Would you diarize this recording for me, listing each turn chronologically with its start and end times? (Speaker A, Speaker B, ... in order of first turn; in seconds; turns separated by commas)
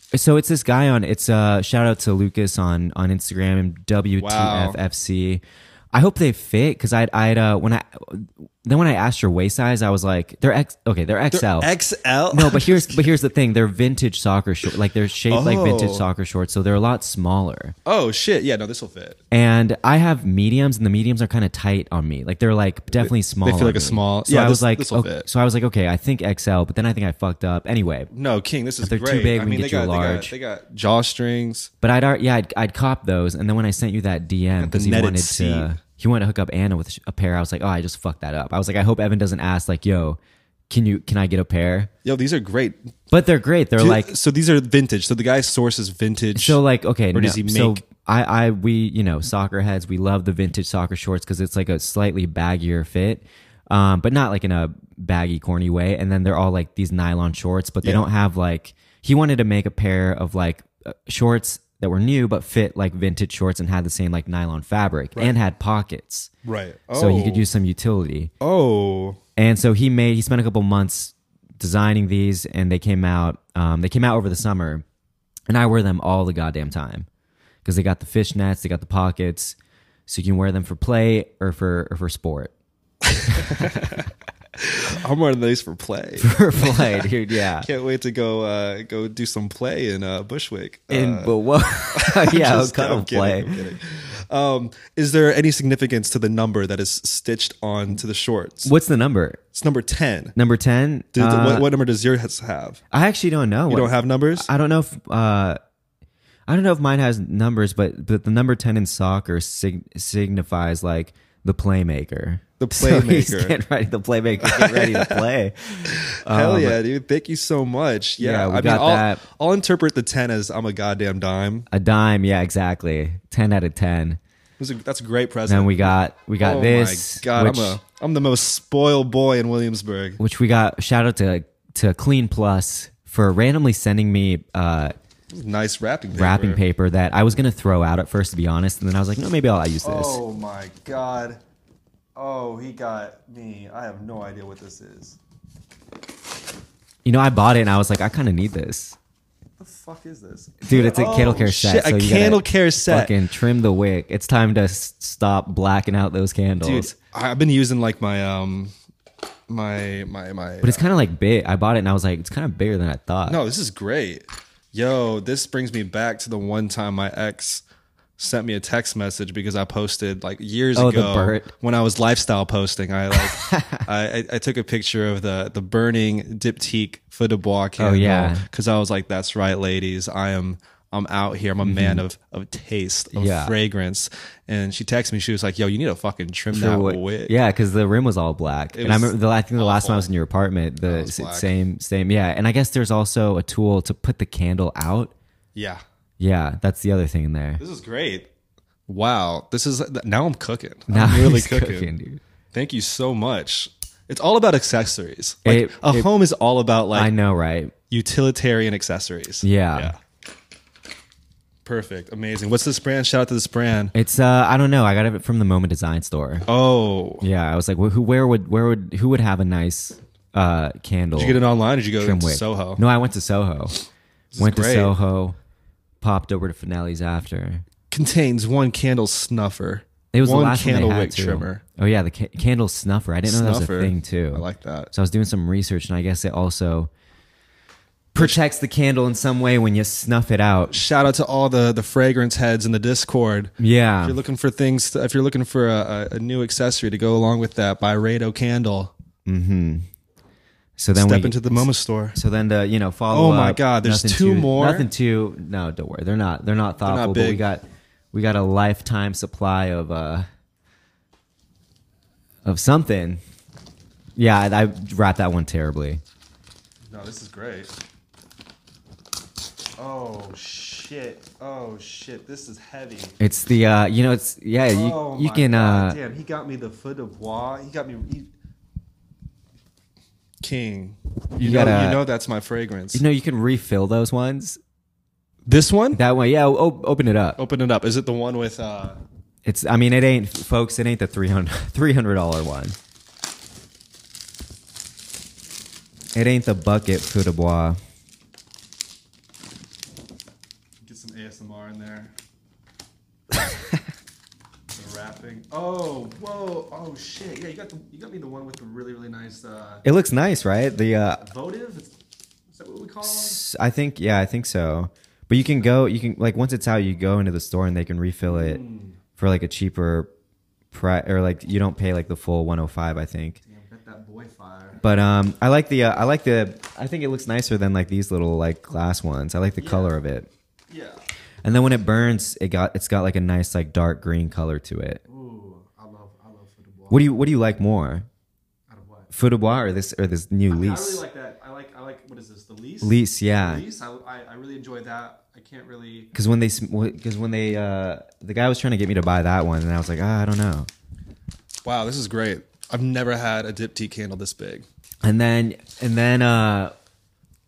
Speaker A: 0.1-11.7, Speaker B: 4.2-4.8, Speaker B: 11.3-13.1, Speaker A: 12.3-17.8, Speaker B: 15.3-16.1, Speaker B: 17.9-19.2, Speaker A: 19.3-28.1, Speaker B: 22.9-25.3, Speaker B: 28.1-31.7, Speaker A: 28.8-30.3, Speaker A: 31.8-40.2, Speaker B: 34.6-35.7, Speaker A: 40.7-41.9, Speaker B: 42.0-42.9, Speaker A: 43.1-44.1, Speaker B: 43.8-46.6, Speaker A: 46.4-66.3, Speaker B: 47.1-47.8, Speaker B: 66.4-67.5, Speaker A: 66.9-68.3, Speaker B: 68.4-69.2, Speaker A: 69.4-74.8, Speaker A: 75.5-77.1, Speaker A: 77.7-79.6, Speaker A: 80.1-82.5, Speaker B: 83.3-91.3, Speaker A: 83.3-83.8, Speaker A: 86.2-87.7, Speaker A: 90.9-93.6, Speaker B: 91.9-98.7, Speaker A: 98.7-99.4, Speaker B: 99.5-100.3, Speaker A: 100.4-101.7, Speaker B: 101.1-102.8, Speaker A: 102.9-105.6, Speaker B: 103.7-104.5, Speaker A: 106.5-116.8, Speaker B: 112.6-113.6, Speaker B: 114.4-115.3, Speaker B: 115.9-121.7, Speaker A: 118.2-119.2, Speaker A: 121.7-124.2, Speaker B: 124.6-130.2, Speaker A: 125.5-127.8, Speaker A: 130.2-134.9, Speaker B: 135.3-136.6, Speaker A: 136.1-140.2, Speaker B: 139.8-141.4, Speaker B: 142.2-145.2, Speaker A: 147.1-149.0, Speaker B: 149.6-153.1, Speaker A: 150.6-156.9, Speaker B: 156.6-158.7, Speaker B: 159.5-160.8, Speaker A: 160.6-163.4, Speaker B: 163.3-167.6, Speaker B: 168.2-187.3, Speaker A: 170.8-171.5, Speaker A: 173.2-173.8, Speaker A: 177.8-178.4, Speaker A: 181.6-182.0, Speaker A: 183.1-183.5, Speaker A: 186.5-195.1, Speaker B: 188.7-190.1, Speaker B: 190.8-191.5, Speaker B: 195.6-195.8, Speaker A: 196.2-197.6, Speaker B: 197.6-198.3, Speaker B: 198.9-201.9, Speaker A: 200.9-202.2, Speaker B: 202.5-207.1, Speaker A: 205.4-206.1, Speaker A: 206.9-207.7, Speaker B: 207.9-210.0, Speaker A: 209.4-209.9, Speaker B: 211.7-213.9, Speaker A: 213.9-216.5, Speaker B: 216.5-217.2, Speaker A: 217.2-221.4, Speaker B: 221.2-222.8, Speaker A: 222.0-223.8, Speaker B: 224.3-225.0, Speaker A: 224.4-225.4, Speaker A: 226.0-227.7, Speaker B: 227.9-231.6, Speaker A: 230.1-236.9, Speaker B: 233.2-234.9, Speaker A: 238.1-240.7, Speaker B: 240.7-243.5, Speaker A: 243.6-244.2, Speaker B: 244.0-248.9, Speaker A: 249.3-249.9, Speaker A: 250.8-260.3, Speaker B: 250.9-252.2, Speaker B: 253.1-254.9, Speaker B: 256.8-257.4, Speaker A: 262.4-263.2, Speaker A: 264.2-266.0, Speaker B: 266.9-267.7, Speaker B: 269.8-273.2, Speaker A: 273.2-276.0, Speaker B: 274.7-278.3, Speaker B: 280.4-283.0, Speaker A: 281.4-282.0, Speaker A: 282.9-284.6, Speaker B: 285.5-286.0, Speaker A: 285.9-287.4, Speaker B: 287.4-289.0, Speaker A: 289.4-292.8, Speaker A: 296.1-297.8, Speaker B: 300.8-302.1, Speaker B: 304.7-309.8, Speaker A: 309.8-311.2, Speaker B: 311.2-311.9, Speaker B: 312.5-313.4, Speaker A: 313.0-318.6, Speaker B: 318.3-319.0, Speaker A: 319.2-320.1, Speaker A: 320.7-323.4, Speaker B: 323.4-324.8, Speaker A: 324.8-330.3, Speaker B: 329.6-330.0, Speaker B: 330.7-331.0, Speaker A: 331.4-335.0, Speaker B: 335.1-337.1, Speaker A: 336.9-338.1, Speaker B: 338.7-339.1, Speaker A: 339.1-341.0, Speaker B: 340.5-346.1, Speaker A: 342.8-343.6, Speaker A: 346.1-350.7, Speaker B: 351.6-354.7, Speaker A: 355.0-356.7